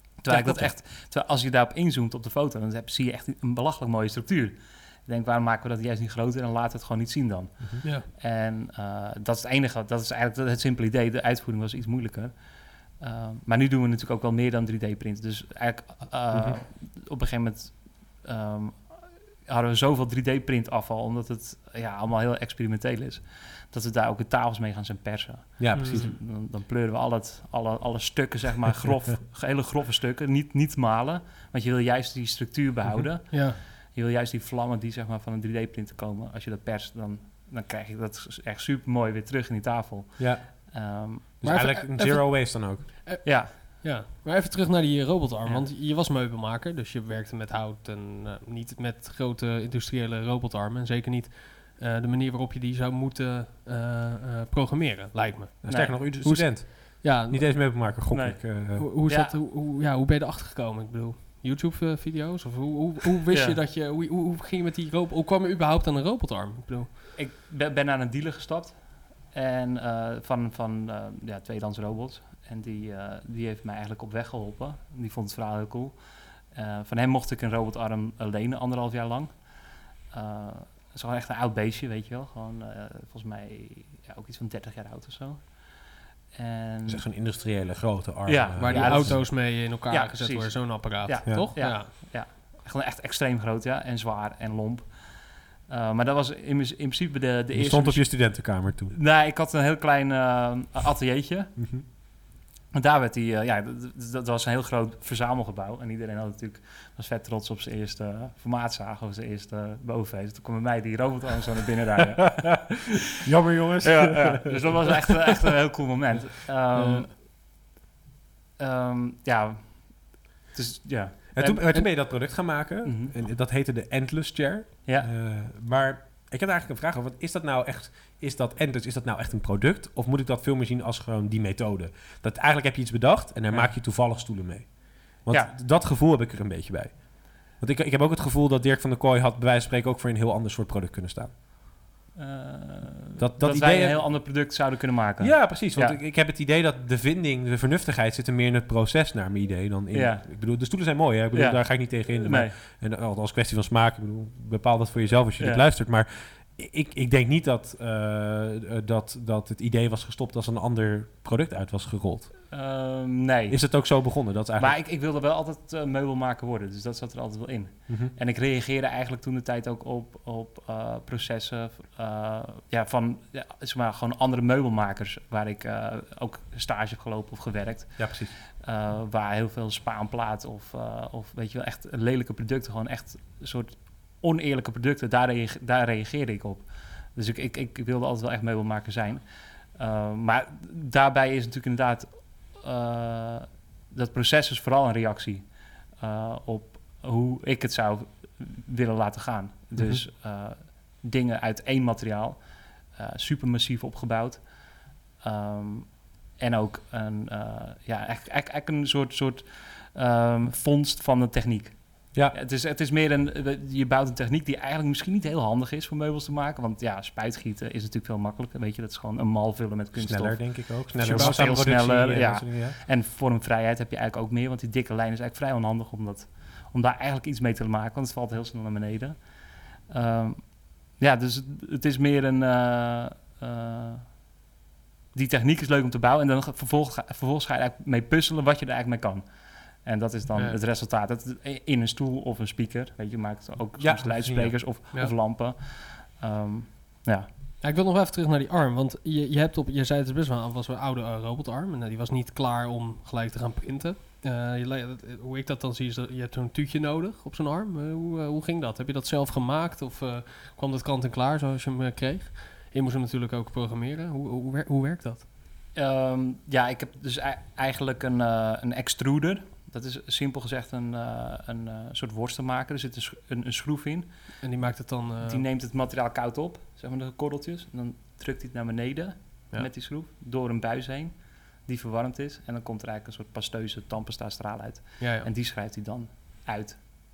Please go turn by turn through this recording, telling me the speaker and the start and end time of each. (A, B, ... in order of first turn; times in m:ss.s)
0:00.2-0:41.4 A
0:00.3-0:00.7 B
0:07.6-0:07.8 B
0:16.3-0:16.6 B
0:25.6-0:26.2 B
0:25.7-0:26.1 C
0:32.8-0:33.1 B
0:33.3-0:33.6 C
0:40.2-0:40.7 B
0:41.4-0:43.2 B
0:41.4-0:57.8 C
0:42.9-0:43.5 A
0:55.6-0:58.8 B
0:55.7-0:56.0 A
0:58.1-0:59.3 A
0:58.8-1:06.9 C
1:03.3-1:03.6 A
1:07.2-1:27.1 A
1:26.9-1:29.2 B
1:28.2-1:42.0 A
1:28.6-1:31.9 C
1:37.5-1:38.9 B
1:41.6-1:41.8 B
1:42.7-1:52.9 A
1:52.4-1:55.1 B
1:53.8-1:57.2 A
1:56.7-1:57.1 C
1:58.6-2:03.1 A
2:01.3-2:21.3 B
2:13.5-2:13.7 A
2:15.3-2:15.5 A
2:22.2-2:26.0 A
2:23.2-2:24.0 B
2:25.2-2:42.5 B
2:29.9-2:30.8 A
2:31.3-2:32.6 A
2:35.4-2:35.6 A
2:42.5-3:54.2 A
2:43.5-2:44.8 B
2:47.9-2:48.1 B
2:58.0-2:58.3 B
3:19.8-3:20.0 B
3:39.9-3:42.8 B
3:41.0-3:41.7 C
3:55.1-4:07.3 A
4:03.8-4:04.6 B
4:07.6-4:25.2 C
4:25.7-4:34.5 A
4:34.4-4:35.4 C
4:35.2-4:46.8 A
4:45.0-4:45.3 C